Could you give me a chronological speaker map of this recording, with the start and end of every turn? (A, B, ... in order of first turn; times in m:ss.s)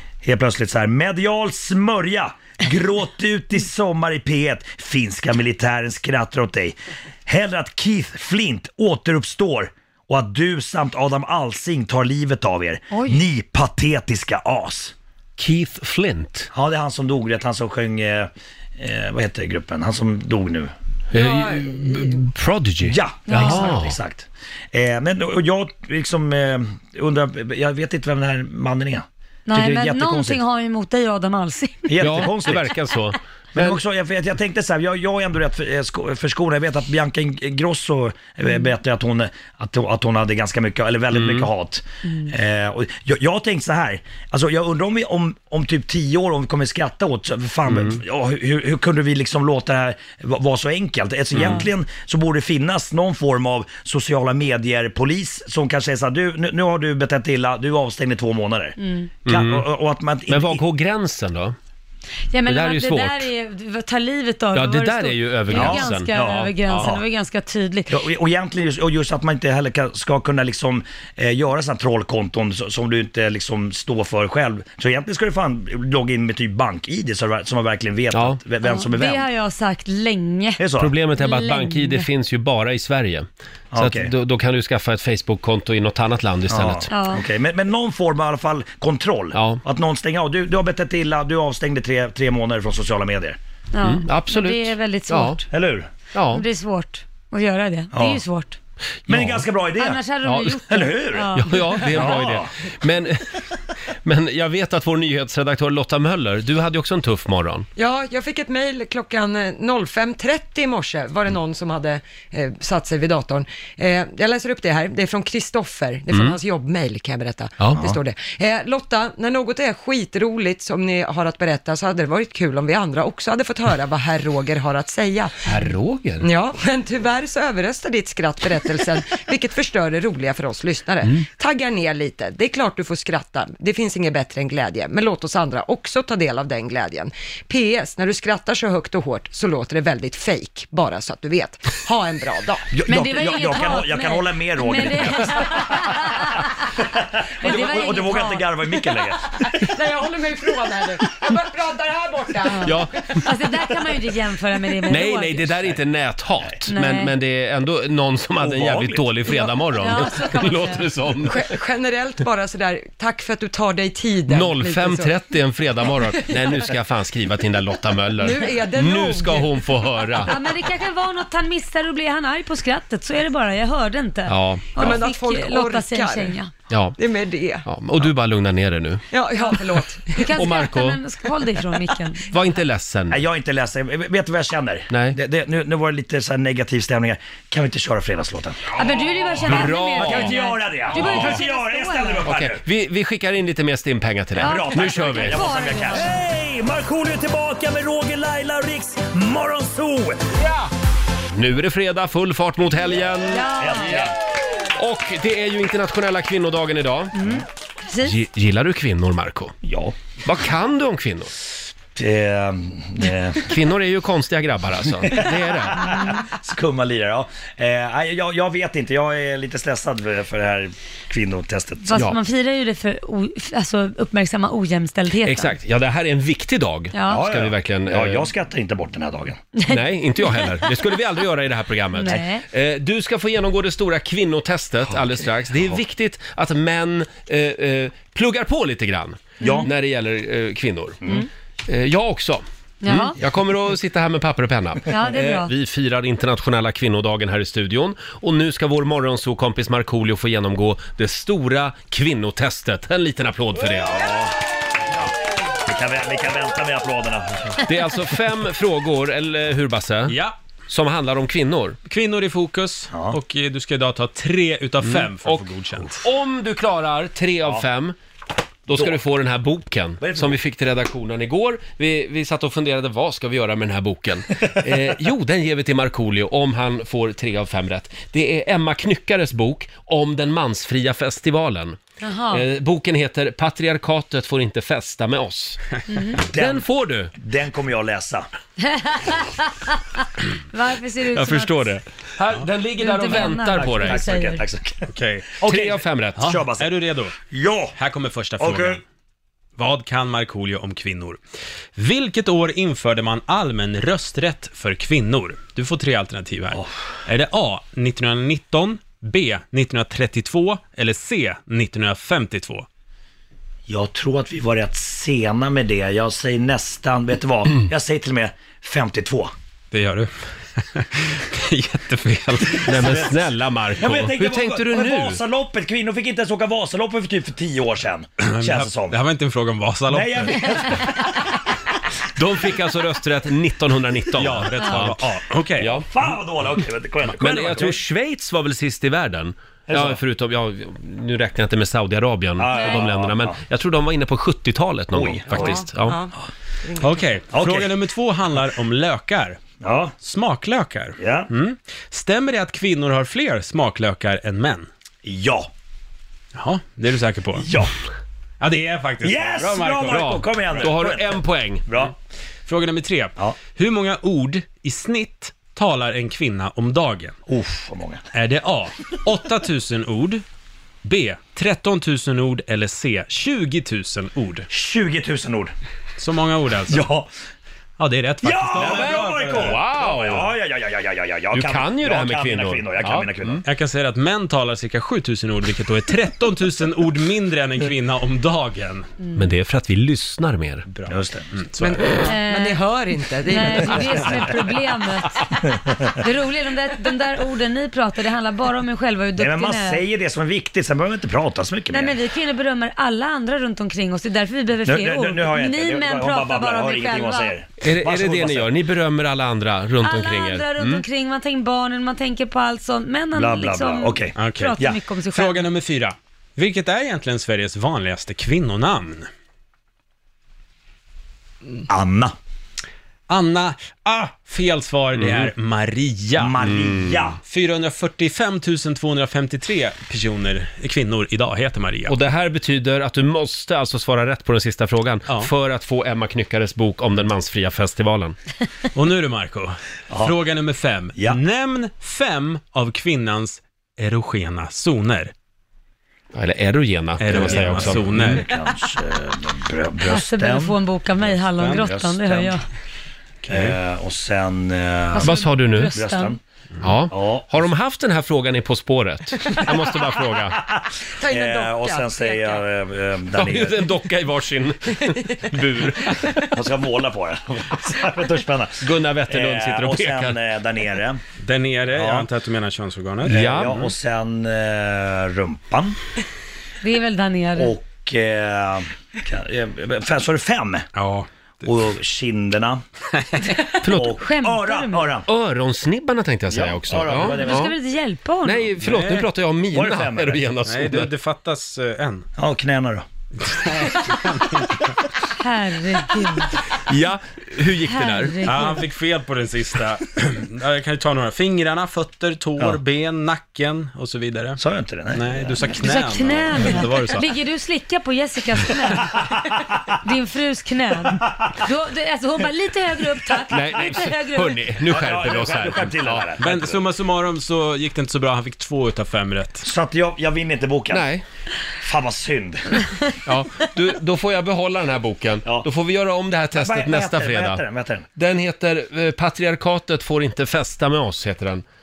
0:00.2-0:14.9 A
0:12.9-0:13.2 B
0:15.4-0:16.5 C
0:16.5-0:20.7 A
0:21.1-0:24.0 C
0:21.2-0:21.7 D
0:22.8-0:30.4 A
0:23.3-0:23.8 B
0:29.5-0:32.3 B
0:31.9-0:32.8 A
0:32.0-0:33.8 C
0:33.5-1:00.6 A
0:41.1-0:41.5 C
0:42.1-0:42.3 B
0:47.7-0:48.0 C
0:51.3-0:51.6 C
0:51.4-0:51.7 B
0:58.8-0:59.1 B
0:59.3-0:59.7 C
1:00.3-1:01.6 C
1:02.3-1:08.0 B
1:02.5-1:03.3 C
1:04.6-1:06.9 C
1:05.5-1:07.0 A
1:07.9-1:19.3 A
1:18.1-1:18.4 C
1:18.6-1:20.6 B
1:20.6-1:20.9 A
1:20.8-1:26.9 C
1:21.2-1:22.1 B
1:23.7-1:24.1 A
1:26.5-1:33.4 A
1:26.9-1:27.2 B
1:29.3-1:29.6 C
1:33.7-1:35.5 B
1:33.8-1:35.4 C
1:35.5-1:35.9 A
1:36.1-1:36.4 C
1:36.3-1:38.6 B
1:37.9-1:38.2 A
1:39.1-1:39.4 C
1:39.1-1:40.0 A
1:39.8-1:42.0 B
1:40.2-1:40.6 C
1:40.7-1:41.4 A
1:41.3-1:43.4 C
1:41.9-1:42.5 A
1:44.0-1:47.7 C
1:47.8-2:05.6 D
1:57.6-1:57.9 C
2:05.4-2:06.3 C
2:06.2-2:22.7 D
2:22.7-2:26.1 A
2:22.9-2:26.5 B
2:26.7-2:29.4 A
2:27.4-2:28.5 B
2:29.5-2:33.2 D
2:32.5-2:35.6 B
2:32.6-2:33.3 C
2:34.9-2:41.4 C
2:36.7-2:37.1 B
2:38.4-2:39.2 A
2:39.7-2:40.9 B
2:41.2-2:45.1 D
2:44.3-2:50.4 C
2:46.1-2:46.6 D
2:48.2-2:50.3 D
2:50.3-2:56.5 B
2:54.3-2:54.9 C
2:54.8-2:56.4 D
2:56.7-2:57.0 C
2:57.0-2:57.7 D
2:57.6-2:59.0 C
2:59.1-3:00.4 D
3:00.2-3:02.4 B
3:00.3-3:01.0 C
3:02.3-3:03.2 C
3:03.1-3:08.7 A
3:04.9-3:05.2 C
3:08.8-3:12.3 B
3:09.4-3:10.4 C
3:09.5-3:12.6 A
3:10.9-3:11.4 C
3:12.3-3:15.4 C
3:14.4-3:20.3 A
3:14.4-3:16.2 B
3:20.4-3:20.7 C
3:21.3-3:24.1 C
3:23.3-3:24.0 B
3:23.6-3:24.1 A
3:24.7-3:27.2 C
3:27.2-3:28.2 B
3:28.0-3:29.6 C
3:29.6-3:30.0 A
3:30.2-3:31.3 C
3:32.0-3:33.5 A
3:33.4-3:35.9 C
3:35.1-3:42.0 A
3:41.8-3:45.5 B
3:45.2-3:48.3 C
3:46.9-3:47.3 B
3:47.1-3:49.4 A
3:49.6-3:50.6 B
3:49.7-4:01.0 C
3:52.0-3:52.5 B
3:59.4-3:59.7 B
3:59.4-3:59.7 A
4:01.7-4:14.1 C
4:02.8-4:03.2 B
4:04.9-4:05.5 B
4:13.8-4:14.4 A
4:15.6-4:17.6 A
4:17.6-4:20.2 C
4:20.1-4:20.4 E
4:20.7-4:21.8 C
4:21.9-4:26.0 E
4:22.9-4:23.2 A
4:24.8-4:28.0 C
4:28.7-4:41.8 C
4:30.0-4:30.4 A
4:42.0-4:42.4 B
4:42.3-4:45.6 C
4:45.9-4:46.2 B
4:46.3-4:48.3 A
4:46.3-4:47.1 C
4:48.7-4:49.8 B
4:50.5-4:51.7 B
4:51.2-4:54.1 C
4:52.8-4:54.4 B
4:53.6-4:54.9 A
4:54.9-4:55.3 E
4:55.4-4:57.7 A
4:55.4-4:56.3 C
4:56.2-4:57.1 E
4:57.8-4:58.8 E
4:58.4-4:58.8 A
4:59.6-5:01.2 E
5:01.8-5:12.7 E
5:13.7-5:19.3 A
5:19.7-5:22.7 E
5:22.6-5:23.2 A
5:22.7-5:25.2 C
5:23.8-5:29.0 A
5:28.2-5:30.5 E
5:29.9-5:31.3 A
5:32.2-5:35.0 C
5:34.2-5:35.8 E
5:35.6-5:35.9 C
5:35.8-5:37.7 A
5:37.1-5:37.7 E
5:37.2-5:46.0 C
5:39.7-5:40.0 A
5:42.4-5:43.4 A
5:44.9-5:45.5 A
5:45.4-5:46.1 D
5:46.6-5:47.0 D
5:46.8-5:49.4 E
5:47.3-5:47.8 A
5:49.6-5:50.0 A
5:50.0-5:54.7 E
5:51.0-5:51.3 A
5:55.0-5:55.5 A
5:56.4-5:57.5 E
5:57.4-5:57.7 A
5:58.4-6:00.2 E
5:59.0-6:01.9 A
5:59.9-6:01.7 C
6:02.5-6:07.2 E
6:07.3-6:08.0 A
6:08.1-6:10.2 E
6:10.8-6:14.5 E
6:14.5-6:15.5 A
6:16.0-6:16.9 E
6:16.7-6:17.1 A
6:17.8-6:19.6 E
6:18.2-6:23.4 A
6:18.6-6:20.3 C
6:21.3-6:23.4 C
6:23.5-6:28.9 E
6:29.2-6:30.7 C
6:30.8-6:32.1 E
6:30.9-6:31.3 A
6:31.6-6:34.1 D
6:32.1-6:32.6 B
6:33.3-6:39.8 B
6:39.2-6:42.0 A
6:41.7-6:47.3 B
6:44.6-6:48.5 A
6:47.6-6:50.8 C
6:49.8-6:55.5 B
6:53.1-6:54.8 A
6:54.2-6:54.5 E
6:55.1-6:59.1 E
7:01.7-7:02.2 A
7:03.1-7:06.4 E
7:05.0-7:05.3 C
7:06.2-7:07.2 A
7:06.5-7:06.9 C
7:07.3-7:12.0 E
7:11.9-7:18.2 C
7:18.7-7:25.1 E
7:19.9-7:20.2 A
7:26.1-7:28.0 C
7:27.0-7:28.3 E
7:27.1-7:30.6 A
7:29.8-7:32.4 B
7:31.4-7:31.7 E
7:31.5-7:32.3 A
7:33.3-7:33.6 E
7:33.3-7:36.2 A
7:34.9-7:36.2 B
7:35.0-7:35.7 C
7:36.6-7:40.4 C
7:36.9-7:37.3 A
7:40.5-7:43.6 A
7:41.0-7:42.4 D
7:43.2-7:46.3 C
7:46.1-7:51.0 A
7:48.6-7:50.2 C
7:51.2-7:53.7 E
7:51.7-7:52.1 A
7:53.1-7:55.8 A
7:53.1-7:53.6 C
7:56.6-7:57.5 B
7:57.4-8:00.7 A
8:00.8-8:01.1 E
8:01.4-8:02.6 A
8:03.6-8:04.0 C
8:03.7-8:05.1 A
8:04.0-8:05.0 B
8:05.1-8:07.6 C
8:06.3-8:07.5 A
8:07.1-8:08.5 B
8:08.2-8:10.9 C
8:08.6-8:09.1 E
8:09.5-8:10.3 A
8:10.5-8:12.1 E
8:12.2-8:12.8 A
8:13.3-8:14.6 E
8:15.2-8:16.4 B
8:16.7-8:18.2 C
8:17.7-8:18.6 B
8:18.3-8:24.4 E
8:24.4-8:25.5 A
8:24.9-8:27.1 E
8:25.6-8:29.0 B
8:29.8-8:34.4 B
8:33.3-8:36.1 C
8:34.7-8:36.6 A
8:36.2-8:39.4 E
8:39.4-8:40.9 A
8:40.7-8:41.0 C
8:41.6-8:42.9 A
8:43.1-8:47.4 C
8:46.3-8:47.9 A
8:48.0-8:51.4 C